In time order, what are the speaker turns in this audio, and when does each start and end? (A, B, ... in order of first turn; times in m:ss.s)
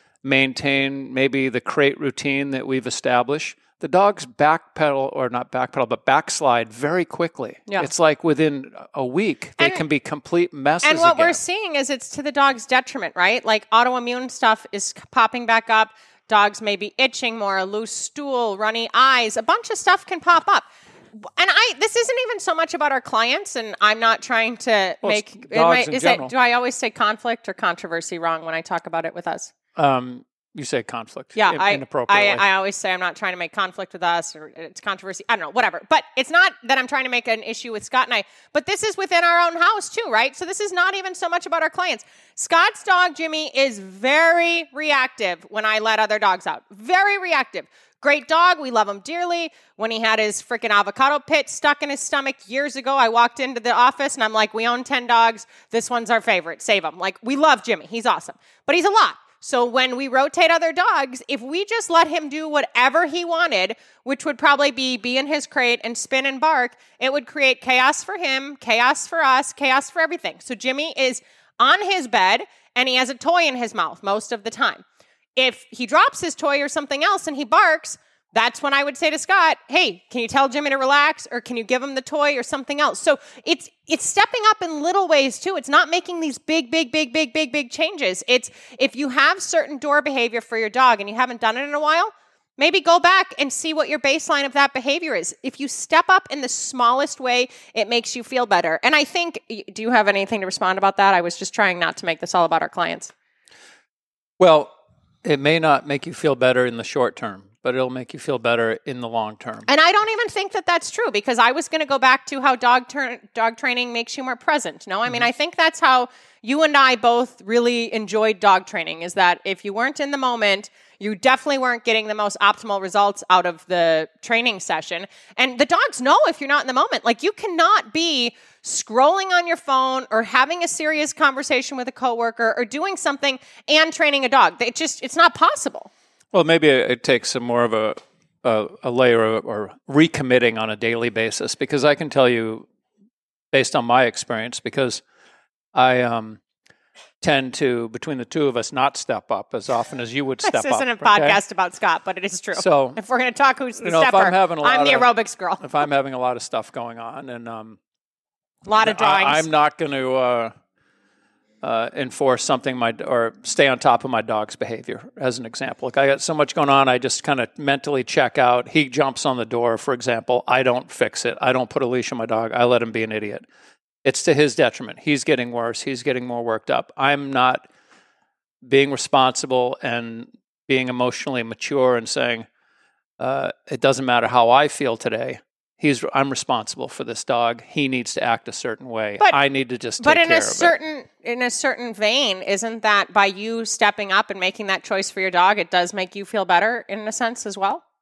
0:00.2-0:11.4 A
0:09.6-0:09.8 B
0:10.8-0:20.7 B
0:21.2-0:29.5 B
0:25.0-0:26.3 A
0:29.8-0:32.4 A
0:31.4-1:14.8 B
1:15.4-1:43.1 B
1:44.4-1:44.7 A
1:45.2-1:49.7 A
1:49.7-2:15.9 B
2:16.3-2:22.7 A
2:23.5-2:25.0 A
2:25.7-2:26.4 A
2:27.2-2:31.4 A
2:30.4-2:35.6 B
2:32.6-2:33.0 A
2:33.8-2:35.1 A
2:35.6-2:37.8 A
2:38.7-2:39.5 B
2:38.8-2:40.5 A
2:41.6-2:53.4 A
2:54.0-2:57.7 A
2:58.6-3:02.5 A
3:03.2-3:10.7 A
3:10.0-3:17.8 B